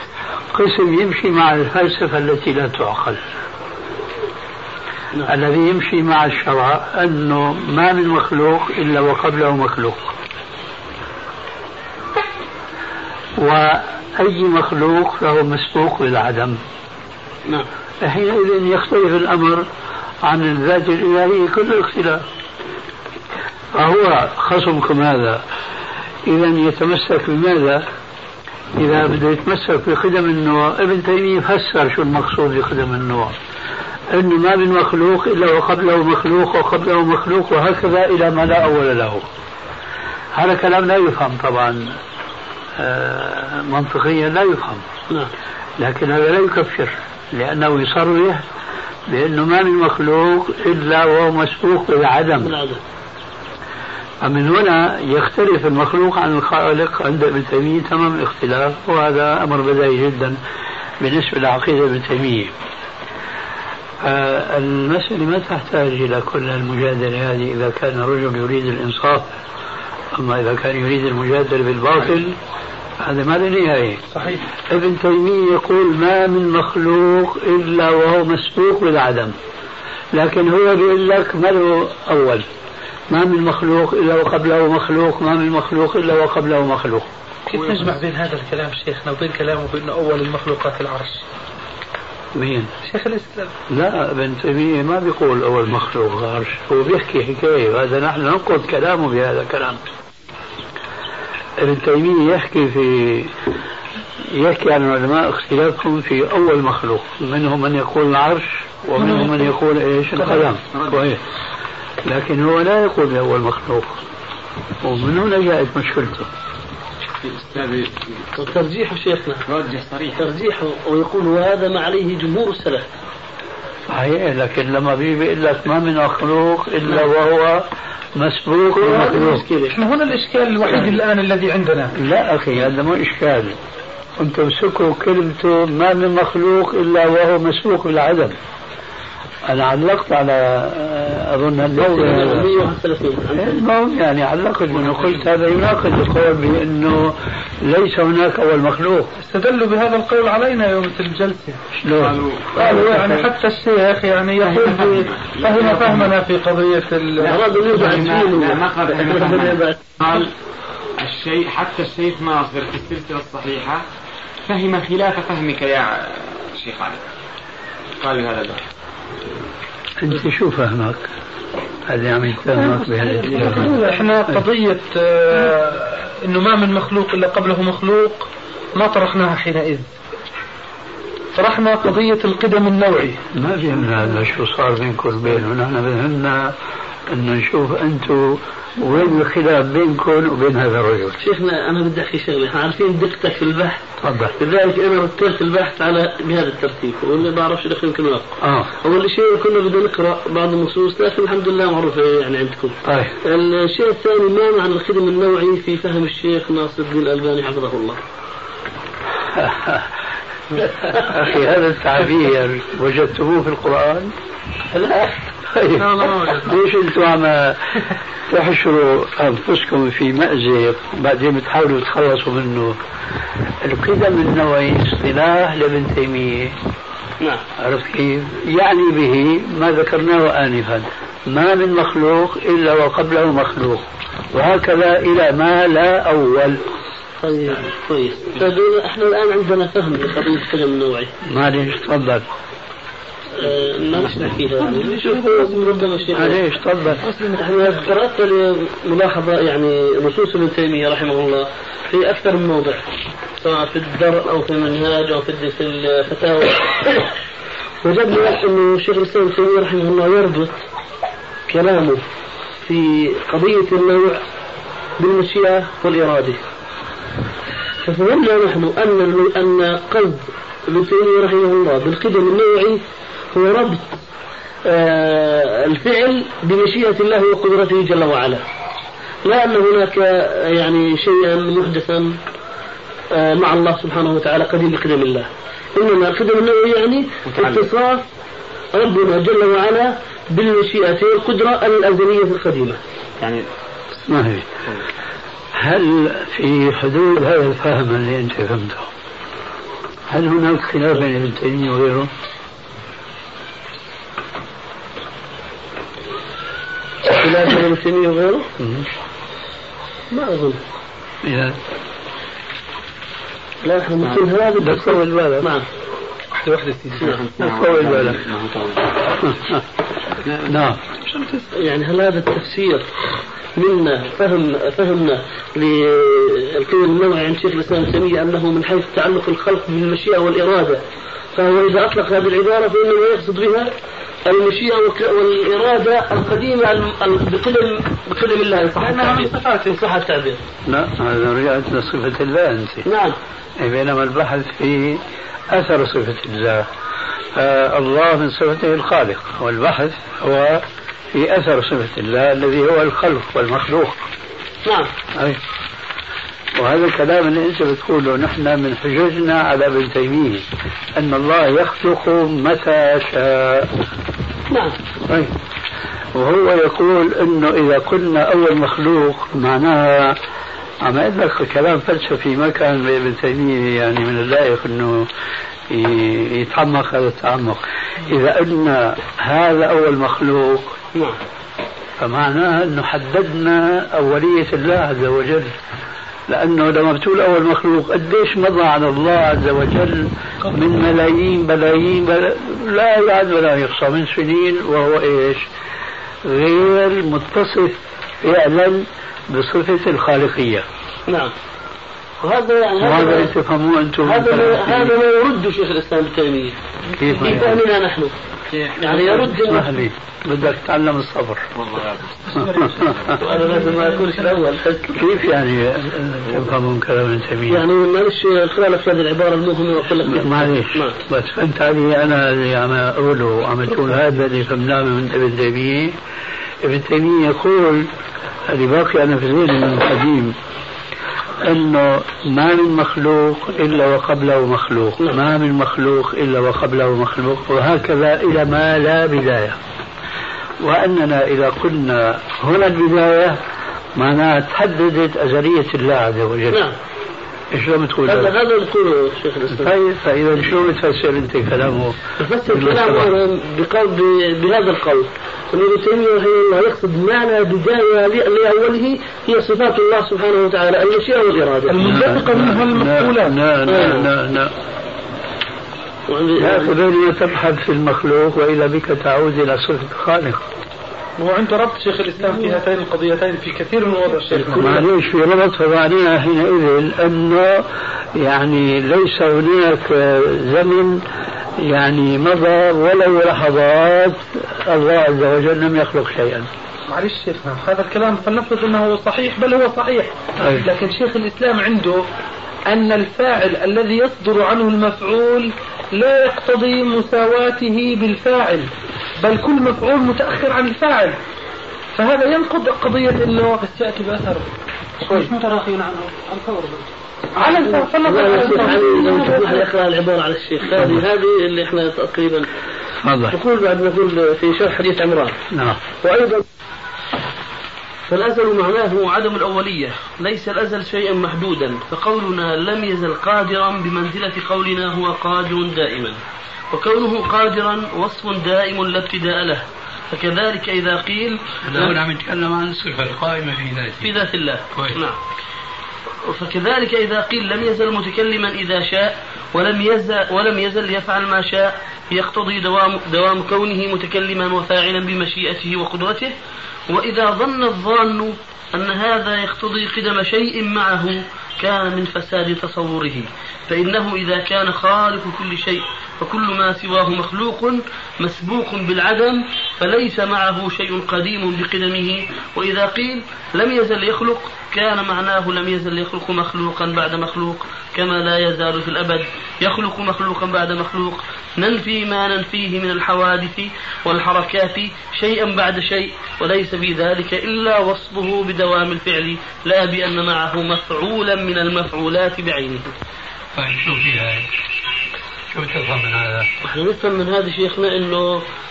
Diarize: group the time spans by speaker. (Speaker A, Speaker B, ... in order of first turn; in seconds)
Speaker A: 0.5-3.2, 5.3-10.1, 13.4-16.6, 18.0-19.6, 20.2-22.2, 23.7-25.4, 26.2-27.8, 28.8-33.4, 34.1-39.2, 40.3-42.0, 42.8-44.9, 45.8-48.4, 49.1-52.5, 54.2-60.4, 61.0-62.5, 64.0-69.3, 70.1-72.4, 73.0-74.0, 74.7-79.3, 80.1-82.5, 83.1-87.1, 92.3-92.7, 93.7-99.9, 101.6-103.3, 104.2-111.2, 112.0-114.0, 114.8-116.3, 123.9-129.4, 131.9-133.6, 134.2-138.4, 139.4-142.6, 143.3-149.1, 151.7-152.2, 170.0-171.1, 171.9-174.4, 183.3-186.5, 187.1-191.2, 194.0-194.3, 198.4-198.7, 202.8-203.2, 209.3-209.9, 210.5-214.1, 214.7-222.8, 223.6-226.6, 227.6-236.6, 241.2-242.2, 246.1-247.0, 294.1-294.5, 295.6-298.9, 300.1-302.1, 308.6-308.9, 311.2-311.6, 314.6-315.5, 317.4-318.2, 319.2-319.6, 320.4-320.8, 340.7-342.9, 343.6-346.7, 347.3-354.1, 355.1-355.4, 356.6-363.7, 365.1-365.3, 366.1-370.2, 370.8-375.1, 375.7-380.7, 382.0-385.5, 386.3-395.5, 396.2-400.7, 402.8-404.9, 407.0-407.6, 408.8-411.5, 412.4-413.2, 414.9-417.6, 420.0-426.0, 426.6-427.9, 428.5-430.4, 431.4-439.6, 440.6-443.4, 443.9-446.6, 447.5-448.3, 449.5-453.1, 461.8-464.5, 466.4-470.4, 474.4-481.0, 481.6-486.5, 490.4-490.7, 510.7-511.0, 513.0-513.4, 515.5-515.8, 531.6-534.2, 534.7-535.0, 583.5-584.5, 585.5-586.5
Speaker B: 52.4-52.8, 118.4-119.4, 120.2-122.9, 128.8-129.8, 141.8-143.6, 152.6-153.2, 157.2-159.8, 191.2-193.8, 194.4-208.0, 227.2-227.4, 237.2-241.1, 243.4-246.4, 247.3-252.8, 253.4-257.1, 257.8-260.6, 261.5-262.0, 262.6-264.2, 265.0-266.4, 267.8-272.8, 273.3-273.9, 274.6-278.4, 279.2-282.2, 283.1-288.1, 288.7-292.8, 307.1-308.5, 310.1-310.6, 313.6-315.7, 321.5-322.9, 323.6-330.8, 331.3-333.7, 334.2-340.4, 342.8-343.2, 354.7-354.9, 364.5-364.8, 401.1-401.3, 402.2-403.3, 404.0-406.6, 407.1-408.1, 408.8-409.7, 413.2-415.1, 417.5-421.0, 446.5-446.8, 448.1-449.7, 452.2-461.8, 463.6-464.1, 466.1-466.8, 474.4-474.8, 508.0-512.5, 513.3-515.4, 516.0-516.4, 518.1-531.9, 534.0-535.2, 536.2-546.3, 546.9-582.9, 586.6-588.4
Speaker C: 74.1-74.5, 87.5-91.2, 92.8-93.5, 129.7-131.9, 149.2-151.6, 152.6-157.4, 173.8-179.9, 181.3-183.3, 215.8-216.5, 316.3-317.2, 321.1-321.5, 338.7-339.8, 461.7-463.4, 471.2-474.8, 486.9-492.1, 492.7-501.2, 501.9-503.6, 507.4-509.6
Speaker D: 110.7-111.1, 117.2-118.3, 119.5-120.3, 144.8-145.1, 151.9-152.8, 154.4-156.1, 157.2-160.3, 161.0-163.8, 164.5-167.0, 168.0-168.6, 287.2-287.7, 293.2-293.4, 317.0-319.1, 320.2-320.7, 411.6-413.1
Speaker E: 172.5-174.1, 244.6-246.3, 247.0-247.6, 413.3-414.2, 503.6-504.5, 505.1-509.6